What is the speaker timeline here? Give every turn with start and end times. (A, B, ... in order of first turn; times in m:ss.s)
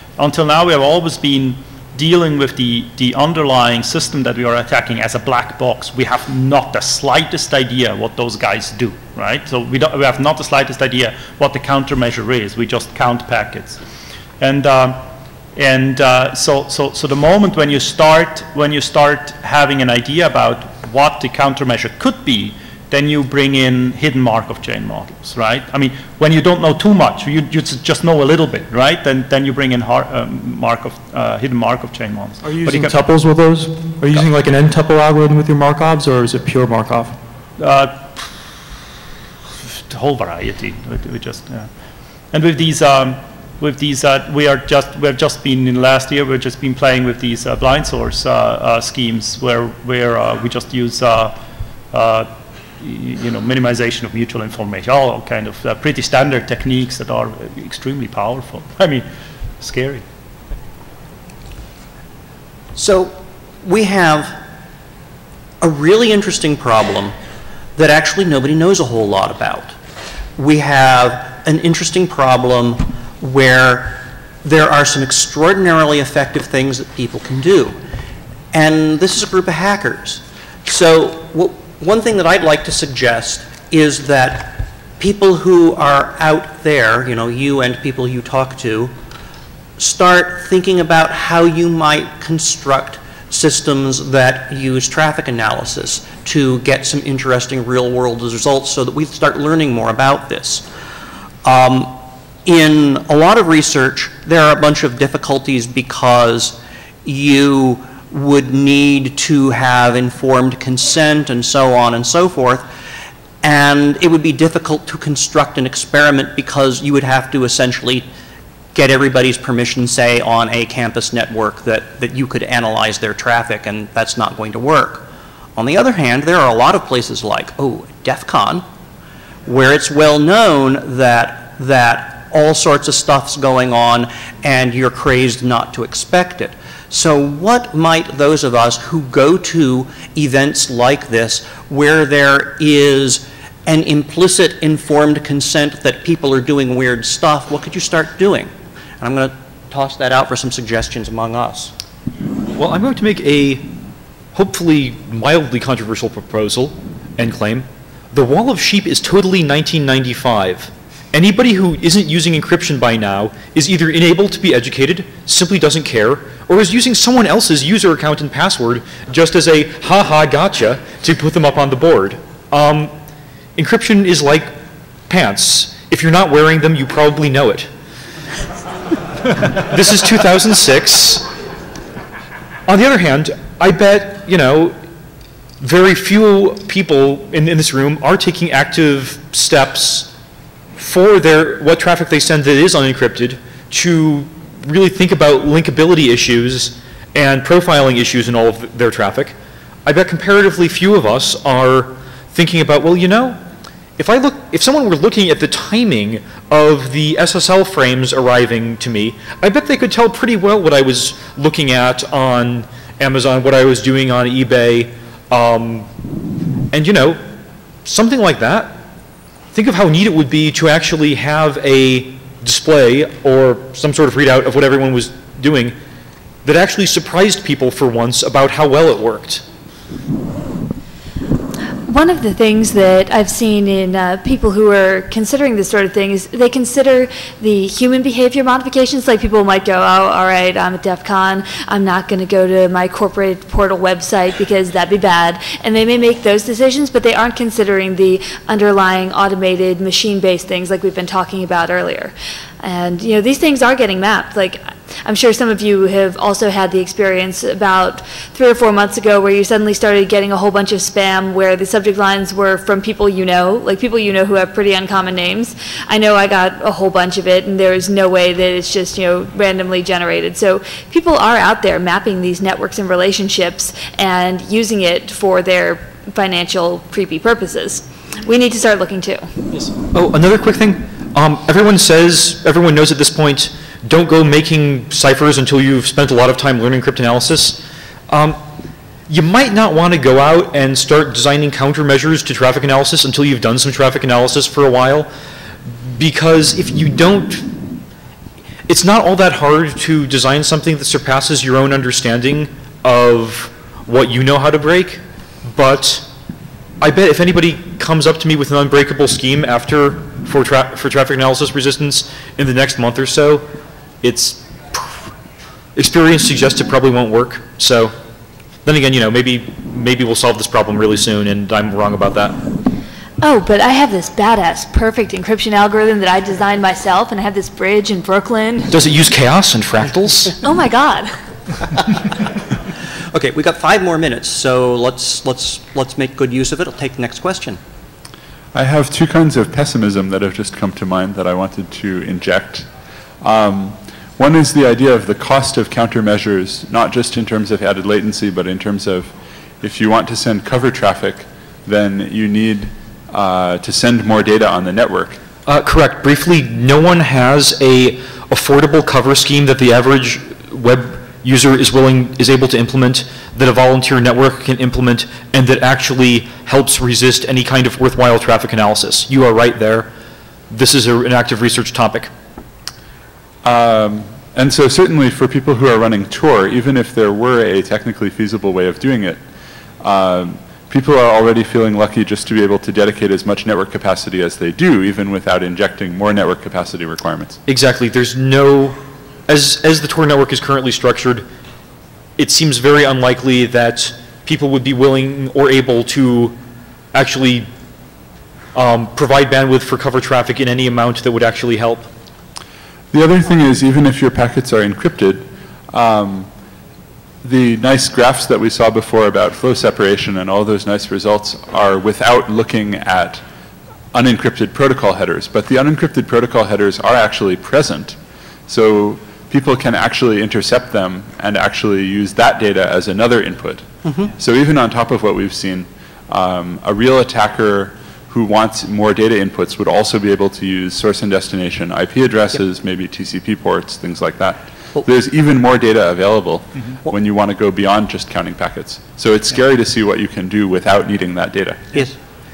0:00.2-0:13.8 A
0:14.4-0:33.0 A
0:32.4-0:37.2 B
0:37.6-0:38.5 A
0:39.6-0:41.7 A
0:42.3-0:51.4 A
0:51.9-0:59.1 A
0:59.6-1:00.0 A
1:02.8-1:04.4 C
1:05.6-1:07.1 C
1:07.8-1:09.8 C
1:10.4-1:17.8 C
1:18.5-1:28.9 C
1:29.8-1:40.7 C
1:41.4-1:52.7 C
1:53.4-1:58.1 C
1:58.7-2:08.7 C
2:09.5-2:31.7 C
2:32.5-2:33.7 D
2:34.3-2:52.9 D
2:53.6-2:54.5 D
2:55.1-2:57.7 D
2:59.5-3:01.3 D
3:02.7-3:04.8 D
3:05.6-3:10.1 D
3:10.8-3:23.4 D
3:24.0-3:35.9 D
3:36.7-3:37.2 D
3:37.8-3:38.8 D
3:39.5-3:45.8 D
3:46.4-3:49.4 D
3:51.9-4:39.3 E
4:39.6-4:48.4 D
4:49.1-4:55.1 D
4:55.9-4:57.6 D
4:58.7-5:06.1 D
5:06.8-5:13.5 D
5:14.0-5:15.1 D
5:15.8-5:17.9 D
5:18.6-5:22.4 D
5:23.2-5:28.7 E
5:28.7-5:30.4 D
5:30.4-5:31.2 E
5:33.1-5:37.6 C
5:38.5-5:42.7 F
5:43.2-5:55.2 F
5:55.5-6:09.9 D
6:10.5-6:12.1 D
6:13.4-6:19.2 F
6:19.8-6:27.4 F
6:27.5-6:31.3 D
6:32.2-6:36.4 D
6:36.9-6:37.5 D
6:38.5-6:41.9 D
6:42.9-6:46.3 F
6:47.2-6:53.2 F
6:53.9-7:21.9 F
7:03.8-7:04.1 C